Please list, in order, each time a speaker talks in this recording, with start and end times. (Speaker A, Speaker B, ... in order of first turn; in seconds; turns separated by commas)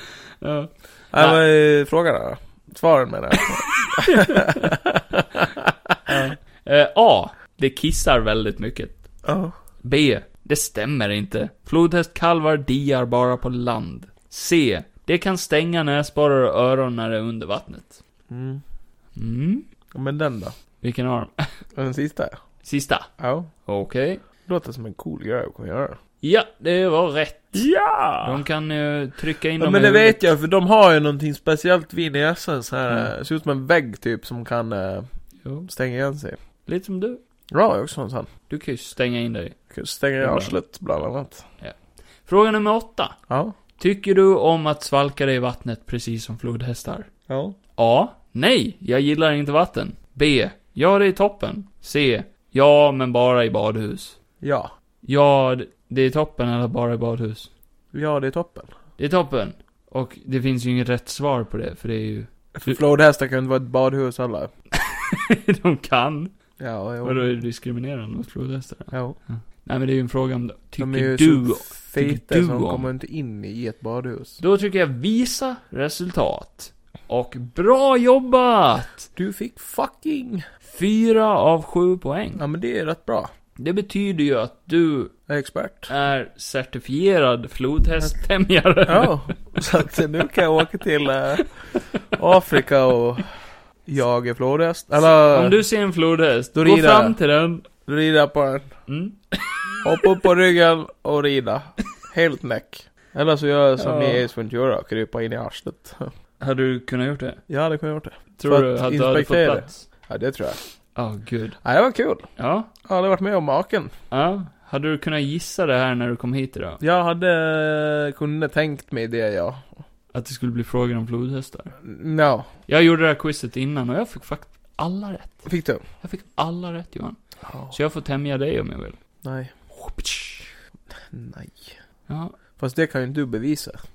Speaker A: 0.4-1.4, Speaker B: 1.1-6.1, Speaker A: 3.7-4.7, Speaker A: 6.1-9.0, Speaker B: 9.2-9.5, Speaker A: 9.8-18.0, Speaker B: 18.3-18.6, Speaker A: 19.1-19.6, Speaker B: 19.9-20.5, Speaker A: 20.8-21.5, Speaker B: 21.7-22.4, Speaker A: 22.6-23.1, Speaker B: 23.2-23.5, Speaker A: 23.6-24.2, Speaker B: 24.4-26.0, Speaker A: 26.2-27.6, Speaker B: 27.5-28.4, Speaker A: 28.2-30.2, Speaker B: 29.6-35.1, Speaker A: 35.4-35.7, Speaker B: 35.7-36.4, Speaker A: 36.6-37.2, Speaker B: 37.5-38.3, Speaker A: 38.5-39.6, Speaker B: 39.7-41.4, Speaker A: 40.2-40.5, Speaker A: 41.6-43.1, Speaker B: 43.3-43.5, Speaker A: 43.8-47.1, Speaker B: 47.3-47.6, Speaker A: 47.8-54.2, Speaker B: 54.4-54.7, Speaker A: 55.0-57.5, Speaker B: 57.9-58.7, Speaker A: 59.0-62.8, Speaker B: 62.5-64.5, Speaker A: 64.7-66.3, Speaker B: 66.6-67.3, Speaker A: 67.0-72.9, Speaker B: 68.9-69.2, Speaker B: 70.8-74.4, Speaker A: 74.4-79.1, Speaker B: 79.2-80.4, Speaker A: 80.7-82.4, Speaker B: 82.4-83.3, Speaker A: 83.6-85.1, Speaker B: 85.3-85.9, Speaker A: 85.9-89.4, Speaker B: 88.9-93.3, Speaker B: 93.8-95.6, Speaker A: 95.0-97.7, Speaker B: 96.5-97.2, Speaker B: 97.8-98.7, Speaker A: 98.9-100.1, Speaker B: 99.8-106.1, Speaker A: 103.8-104.2, Speaker A: 106.4-107.4, Speaker B: 107.5-110.6, Speaker A: 108.4-109.8, Speaker A: 110.9-111.6, Speaker B: 111.6-112.3, Speaker A: 112.4-112.7, Speaker B: 112.8-113.9, Speaker A: 114.1-116.8, Speaker B: 116.8-119.7, Speaker A: 120.1-121.7, Speaker B: 121.8-122.5, Speaker A: 122.7-125.5, Speaker B: 125.4-125.8, Speaker A: 126.0-129.0, Speaker B: 127.4-127.8, Speaker B: 129.2-129.5, Speaker A: 129.7-130.5, Speaker B: 131.0-131.8, Speaker A: 132.1-132.3, Speaker B: 132.6-133.8